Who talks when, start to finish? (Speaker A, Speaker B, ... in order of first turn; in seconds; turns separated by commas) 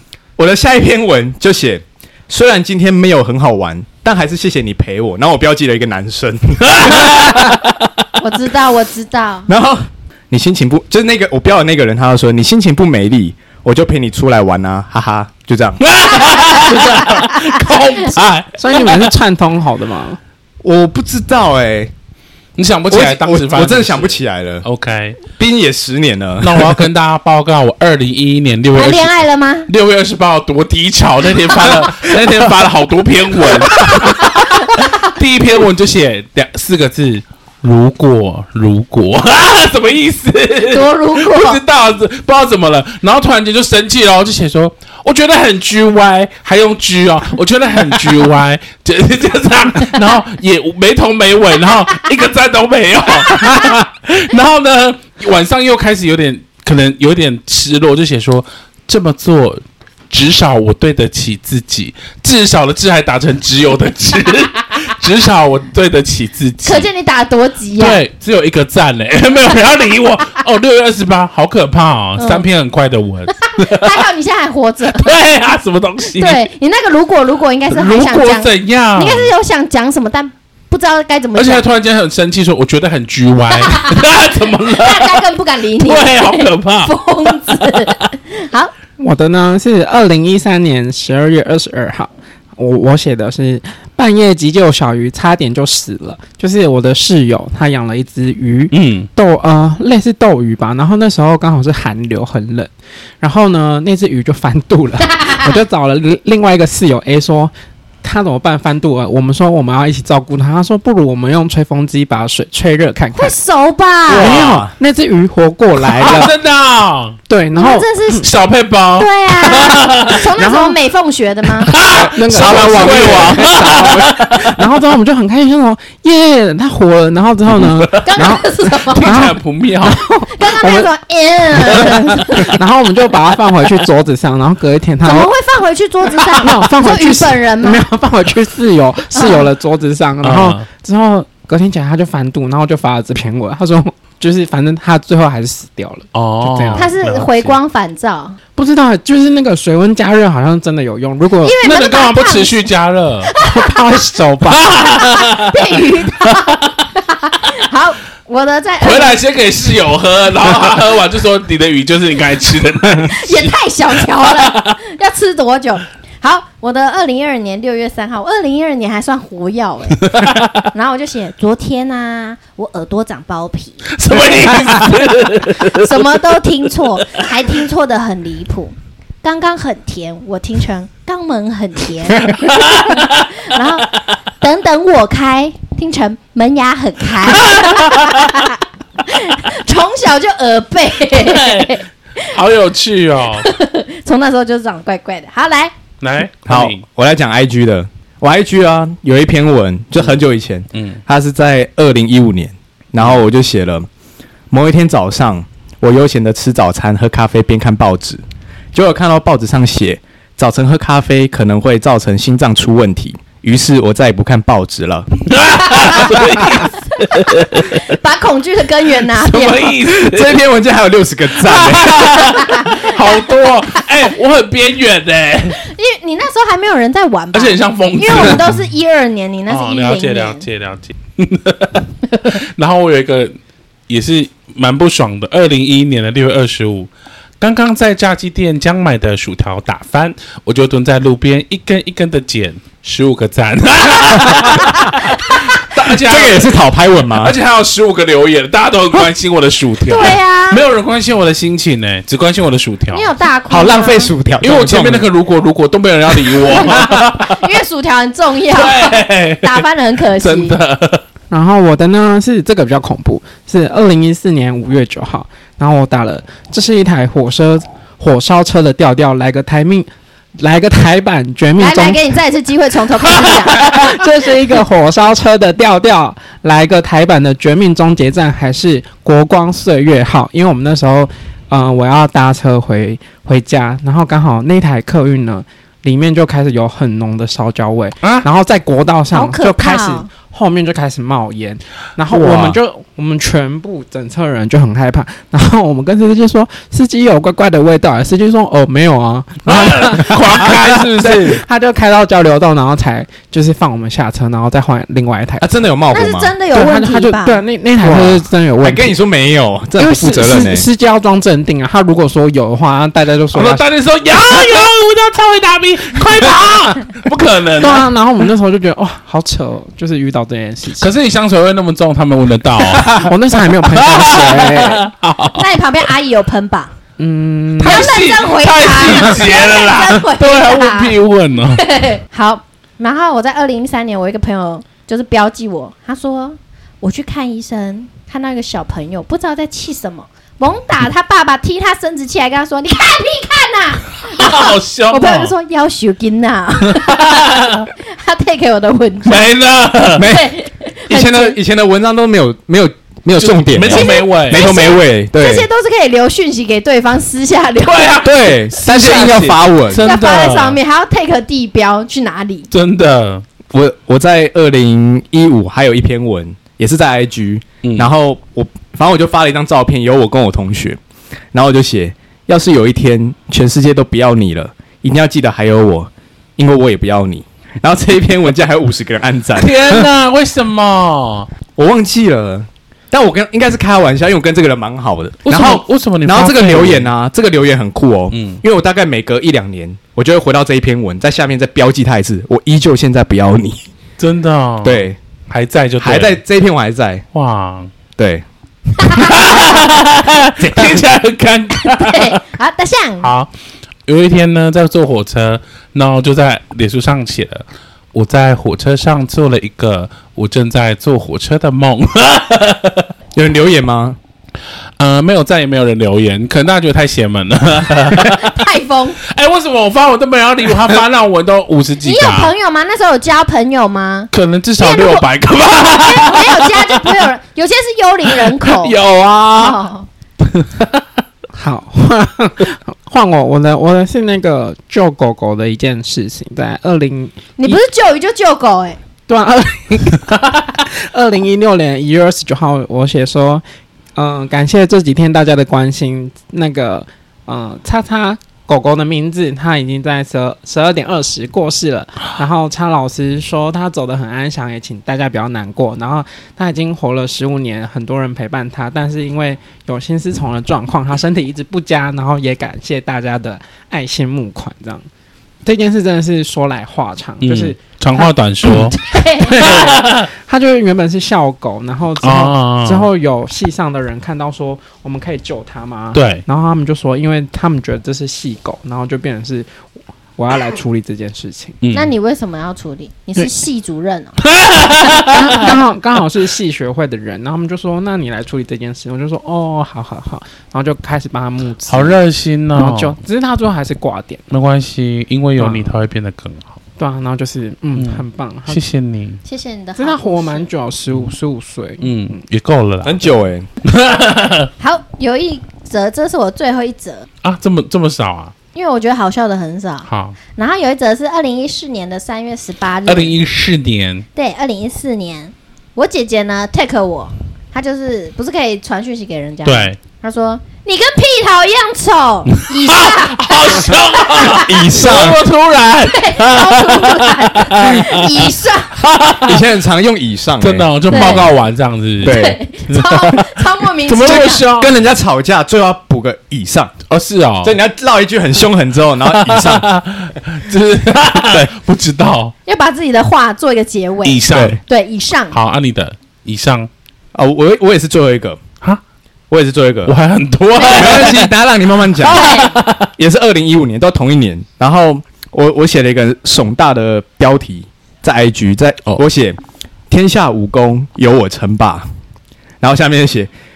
Speaker A: 0.4-7.5, Speaker B: 6.6-7.9, Speaker C: 8.2-9.5, Speaker A: 9.5-15.8, Speaker B: 15.8-19.1, Speaker C: 16.3-17.4, Speaker D: 18.6-20.2, Speaker A: 20.6-21.9, Speaker B: 22.6-25.2, Speaker A: 22.9-24.6, Speaker A: 25.3-26.8, Speaker B: 26.4-29.1, Speaker C: 28.7-29.7, Speaker B: 29.7-66.9, Speaker C: 33.8-34.9, Speaker C: 40.7-41.6, Speaker C: 66.6-68.0, Speaker B: 67.8-74.0, Speaker C: 72.2-72.4, Speaker C: 73.5-75.1, Speaker B: 74.9-76.5, Speaker C: 76.2-81.7, Speaker B: 77.7-79.3, Speaker B: 81.3-85.2, Speaker C: 83.5-88.7, Speaker B: 85.8-87.9, Speaker D: 89.0-107.5, Speaker B: 98.7-99.1, Speaker D: 108.0-113.3, Speaker C: 113.1-114.4, Speaker A: 114.1-114.7, Speaker D: 114.1-116.3, Speaker B: 115.9-117.2, Speaker D: 117.3-118.3, Speaker C: 117.5-118.3, Speaker B: 118.2-120.3, Speaker C: 119.0-121.7, Speaker D: 120.3-120.8, Speaker B: 121.6-124.5, Speaker D: 121.8-130.9, Speaker A: 121.9-124.3, Speaker B: 127.5-128.3, Speaker C: 128.0-129.2, Speaker B: 128.8-130.0, Speaker C: 130.3-132.6, Speaker D: 131.5-135.3, Speaker C: 135.0-137.8, Speaker D: 136.2-146.9, Speaker C: 139.1-139.5, Speaker B: 140.2-140.6, Speaker B: 146.1-147.6, Speaker C: 146.7-148.4, Speaker D: 148.6-151.6, Speaker C: 151.4-152.7, Speaker B: 151.6-153.4, Speaker C: 153.3-154.1, Speaker D: 153.4-154.6, Speaker B: 154.4-156.7, Speaker C: 154.7-159.2, Speaker B: 158.8-164.8, Speaker C: 163.1-170.1, Speaker B: 170.0-170.6, Speaker C: 170.6-173.9, Speaker B: 173.9-176.1, Speaker C: 175.6-183.9, Speaker B: 182.4-183.3, Speaker C: 184.4-192.3, Speaker B: 187.3-188.3, Speaker B: 191.1-193.5, Speaker C: 193.3-195.7, Speaker B: 196.0-196.8, Speaker A: 196.4-203.9, Speaker B: 200.7-201.0, Speaker A: 204.5-208.2, Speaker A: 208.7-215.1, Speaker B: 215.3-217.8, Speaker C: 215.7-216.2, Speaker C: 217.0-219.8, Speaker B: 219.1-220.4, Speaker A: 220.0-222.2, Speaker B: 221.4-225.6, Speaker C: 222.3-223.2, Speaker C: 225.6-230.4, Speaker B: 227.3-228.5, Speaker B: 229.5-233.3, Speaker B: 233.9-236.9, Speaker B: 237.4-246.5, Speaker A: 245.8-247.3, Speaker B: 247.1-253.1, Speaker C: 249.9-250.6, Speaker C: 252.9-254.1, Speaker A: 253.5-255.1, Speaker B: 254.4-257.4, Speaker C: 256.5-260.6, Speaker B: 258.5-259.6, Speaker B: 260.2-261.0, Speaker D: 261.3-272.0, Speaker C: 271.6-273.9, Speaker D: 273.1-305.5, Speaker B: 288.0-288.3, Speaker C: 289.1-290.1, Speaker A: 292.1-292.6, Speaker B: 299.4-301.4, Speaker A: 305.4-306.3, Speaker C: 305.9-307.4, Speaker D: 306.5-308.9, Speaker A: 307.8-310.7, Speaker D: 309.8-313.6, Speaker B: 313.3-317.9, Speaker D: 317.6-320.9, Speaker B: 320.8-323.1, Speaker D: 322.6-324.9, Speaker B: 323.6-325.4, Speaker C: 325.3-326.7, Speaker D: 327.0-327.9, Speaker B: 327.6-331.6, Speaker C: 327.6-331.0, Speaker C: 331.5-349.3, Speaker B: 344.0-345.3, Speaker B: 346.7-347.7, Speaker B: 349.1-350.1, Speaker A: 349.9-350.3, Speaker C: 350.0-351.4, Speaker A: 350.9-355.5, Speaker B: 353.2-354.4, Speaker C: 353.7-358.0, Speaker B: 357.6-360.6, Speaker A: 358.0-359.8, Speaker C: 359.8-362.5, Speaker B: 362.5-363.2, Speaker A: 363.5-370.8, Speaker B: 367.6-367.9, Speaker A: 371.3-379.9, Speaker B: 379.4-381.3, Speaker A: 381.6-393.6, Speaker B: 385.2-386.9, Speaker B: 388.1-388.4, Speaker B: 394.0-396.2, Speaker A: 394.6-395.0, Speaker A: 395.8-397.0, Speaker B: 397.1-397.7, Speaker A: 398.0-398.2, Speaker C: 398.8-399.6, Speaker B: 398.9-402.2, Speaker A: 400.4-400.8, Speaker C: 401.6-403.1, Speaker B: 403.0-403.3, Speaker B: 403.9-412.9, Speaker A: 413.1-414.0, Speaker B: 414.8-418.4, Speaker C: 418.0-419.0, Speaker B: 419.1-422.3, Speaker C: 421.8-428.8, Speaker B: 424.1-427.0, Speaker B: 428.1-429.6, Speaker C: 429.3-429.9, Speaker B: 430.3-430.8, Speaker D: 431.3-437.6, Speaker C: 437.4-438.8, Speaker D: 439.1-443.4, Speaker D: 443.9-464.9, Speaker D: 465.4-468.7, Speaker B: 467.2-470.1, Speaker C: 468.7-469.6, Speaker D: 469.3-479.5, Speaker B: 472.0-472.9, Speaker B: 475.9-476.2, Speaker D: 480.1-481.6, Speaker B: 481.6-481.9, Speaker C: 481.7-484.2, Speaker B: 484.2-485.6, Speaker D: 484.9-492.0, Speaker B: 491.7-493.0, Speaker D: 492.5-494.2, Speaker B: 494.3-496.5, Speaker D: 495.4-495.7, Speaker D: 496.8-498.6, Speaker B: 497.8-499.2, Speaker C: 499.2-500.5, Speaker D: 499.8-502.2, Speaker B: 501.8-503.0, Speaker A: 502.8-503.5, Speaker B: 503.6-504.5, Speaker C: 504.6-507.1, Speaker B: 507.2-508.3, Speaker C: 508.5-513.1, Speaker B: 509.9-510.2, Speaker B: 512.9-514.0, Speaker C: 514.1-524.5, Speaker B: 519.4-519.8, Speaker B: 522.4-529.4, Speaker A: 524.4-525.2, Speaker C: 525.9-528.8, Speaker A: 529.2-531.3, Speaker B: 530.4-533.3, Speaker C: 530.9-531.3, Speaker A: 532.0-532.4, Speaker C: 532.0-534.5, Speaker B: 533.8-534.7, Speaker A: 534.0-536.7, Speaker B: 536.9-537.6, Speaker A: 537.4-539.7, Speaker B: 539.0-542.3, Speaker C: 542.5-545.4, Speaker B: 544.0-544.6, Speaker A: 544.3-544.6, Speaker B: 545.3-546.7, Speaker A: 547.1-548.4, Speaker A: 549.3-549.9, Speaker B: 549.9-551.3, Speaker C: 550.6-551.1, Speaker A: 550.6-552.3, Speaker B: 551.9-552.9, Speaker C: 552.1-552.5, Speaker A: 553.0-559.4, Speaker A: 559.9-561.9, Speaker A: 562.6-563.3